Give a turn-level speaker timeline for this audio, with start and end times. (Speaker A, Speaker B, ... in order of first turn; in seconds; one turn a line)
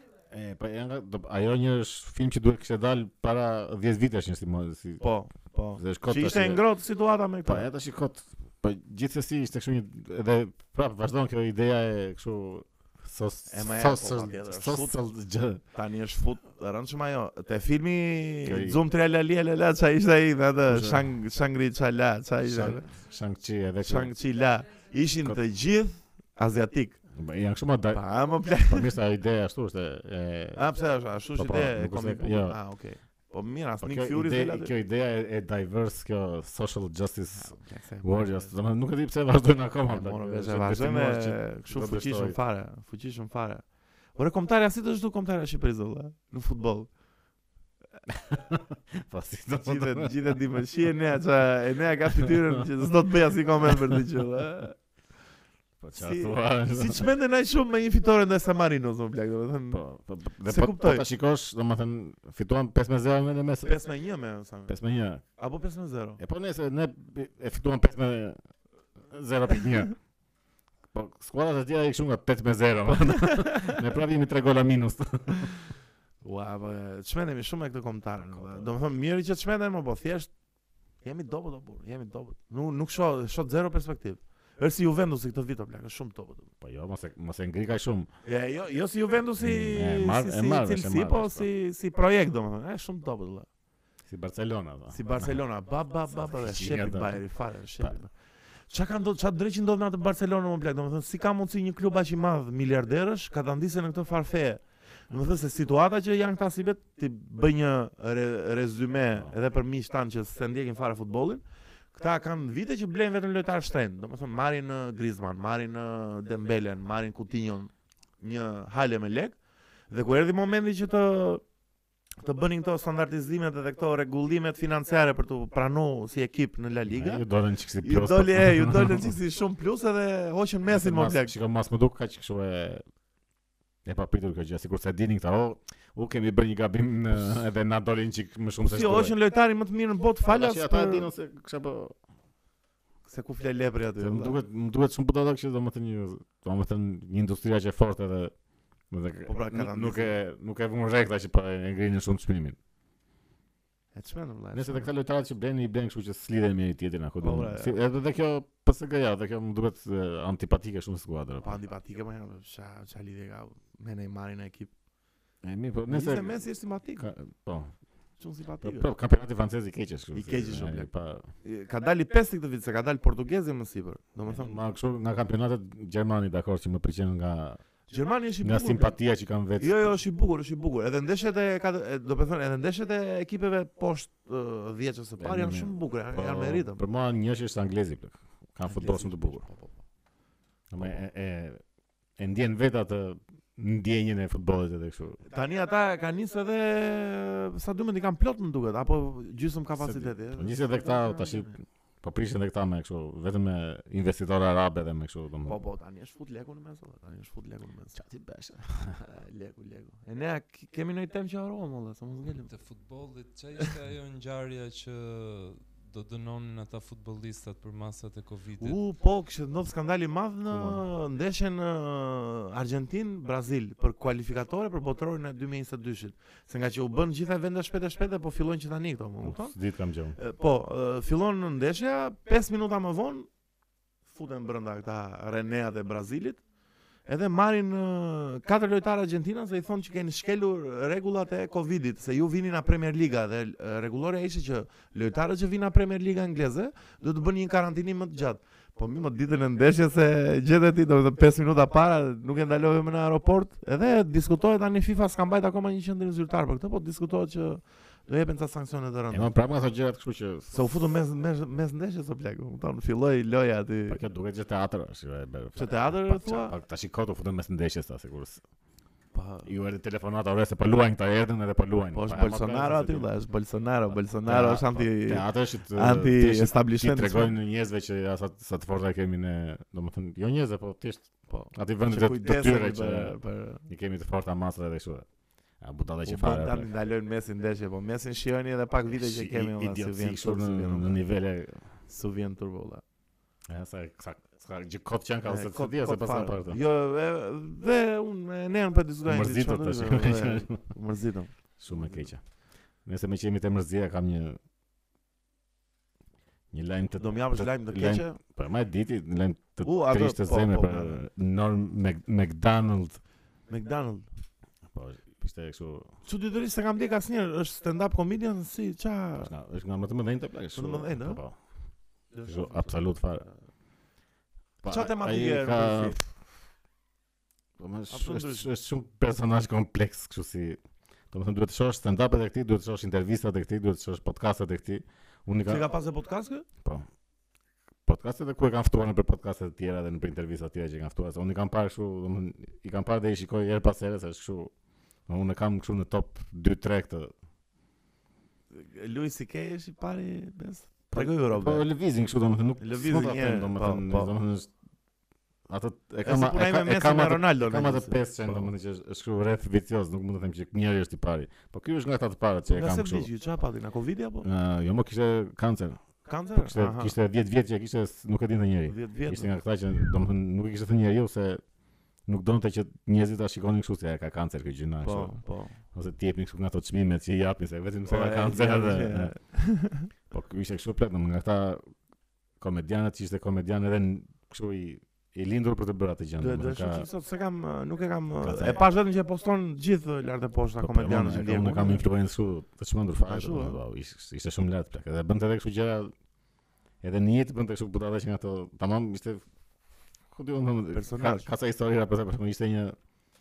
Speaker A: 0.3-5.0
Speaker B: 5.0-7.7
Speaker A: 5.8-6.6
Speaker A: 7.5-15.6
Speaker B: 13.5-14.9
Speaker B: 15.7-22.9
Speaker A: 18.4-18.8
Speaker A: 20.7-21.1
Speaker A: 22.4-24.1
Speaker B: 23.8-27.0
Speaker A: 27.1-28.0
Speaker B: 27.9-28.9
Speaker A: 28.6-30.6
Speaker B: 30.5-34.7
Speaker A: 31.4-32.5
Speaker A: 33.8-42.4
Speaker B: 37.3-38.5
Speaker B: 39.9-43.6
Speaker B: 44.1-46.9
Speaker A: 48.1-50.2
Speaker B: 49.6-54.8
Speaker A: 52.1-52.6
Speaker A: 53.6-54.0
Speaker A: 55.8-57.1
Speaker B: 55.9-59.8
Speaker A: 59.7-63.7
Speaker B: 60.5-61.0
Speaker B: 63.6-64.7
Speaker A: 64.7-65.2
Speaker B: 65.4-66.2
Speaker A: 66.2-68.4
Speaker A: 69.1-69.9
Speaker A: 70.9-75.5
Speaker B: 73.2-73.8
Speaker B: 76.2-80.3
Speaker A: 78.2-78.7
Speaker B: 81.0-86.5
Speaker A: 86.6-88.1
Speaker B: 88.2-93.5
Speaker A: 89.4-91.5
Speaker A: 94.1-95.4
Speaker B: 94.9-98.1
Speaker A: 96.3-97.2
Speaker B: 98.7-119.3
Speaker B: 119.9-121.4
Speaker B: 122.2-127.2
Speaker A: 126.9-129.1
Speaker B: 127.8-131.3
Speaker A: 130.7-132.8
Speaker A: 133.8-139.1
Speaker B: 138.6-141.1
Speaker A: 140.3-141.9
Speaker B: 143.1-144.4
Speaker A: 144.0-148.3
Speaker A: 148.9-152.6
Speaker B: 149.3-150.1
Speaker B: 153.9-154.9
Speaker A: 154.5-161.5
Speaker B: 157.2-157.8
Speaker B: 161.4-164.7
Speaker A: 165.4-166.4
Speaker B: 165.9-167.1
Speaker A: 167.0-167.7
Speaker B: 168.2-168.9
Speaker A: 168.6-171.2
Speaker B: 170.1-170.9
Speaker B: 171.4-174.6
Speaker A: 174.2-177.6
Speaker B: 177.9-179.0
Speaker A: 178.4-179.9
Speaker B: 179.6-186.8
Speaker A: 185.2-189.4
Speaker B: 188.6-189.8
Speaker A: 190.7-191.6
Speaker A: 192.2-195.2
Speaker B: 195.3-201.5
Speaker A: 199.8-205.6
Speaker B: 205.4-208.0
Speaker A: 208.0-209.0
Speaker B: 208.9-212.5
Speaker C: 212.5-218.8
Speaker B: 218.6-229.5
Speaker A: 220.5-220.8
Speaker A: 229.2-230.2
Speaker B: 230.2-233.3
Speaker B: 234.1-236.4
Speaker B: 237.1-259.3
Speaker A: 259.1-260.6
Speaker B: 260.5-264.0
Speaker A: 263.9-268.4
Speaker B: 265.6-266.5
Speaker B: 269.1-269.5
Speaker A: 269.4-273.1
Speaker B: 271.9-277.3
Speaker A: 274.2-283.1
Speaker B: 281.3-283.6
Speaker A: 283.7-285.1
Speaker A: 285.6-286.7
Speaker B: 286.0-290.9
Speaker A: 288.9-291.6
Speaker B: 291.9-292.8
Speaker A: 293.5-296.6
Speaker B: 295.2-302.1
Speaker A: 299.1-300.6
Speaker A: 301.6-302.2
Speaker A: 302.9-304.4
Speaker A: 306.5-313.0
Speaker B: 307.0-308.2
Speaker B: 309.6-311.0
Speaker B: 313.5-314.1
Speaker A: 314.7-315.9
Speaker B: 316.0-319.3
Speaker A: 319.2-321.4
Speaker B: 320.5-321.2
Speaker B: 322.1-323.3
Speaker A: 322.2-323.2
Speaker A: 324.6-326.1
Speaker B: 324.7-326.0
Speaker A: 327.6-330.6
Speaker B: 327.9-328.5
Speaker A: 331.1-335.6
Speaker B: 335.4-336.4
Speaker A: 337.8-344.5
Speaker A: 345.1-347.1
Speaker B: 348.5-351.7
Speaker A: 350.9-354.5
Speaker B: 352.6-354.1
Speaker A: 355.5-363.1
Speaker B: 356.0-358.5
Speaker B: 362.5-364.3
Speaker A: 364.2-365.8
Speaker B: 366.0-366.9
Speaker A: 366.3-371.4
Speaker B: 368.7-369.3
Speaker A: 372.1-375.2
Speaker B: 374.8-375.6
Speaker A: 375.7-379.1
Speaker B: 377.9-379.9
Speaker A: 380.1-381.6
Speaker A: 382.4-386.9
Speaker B: 386.2-391.8
Speaker A: 388.2-388.6
Speaker A: 390.6-395.9
Speaker B: 393.1-393.6
Speaker A: 396.8-399.2
Speaker A: 400.1-402.8
Speaker B: 400.7-401.3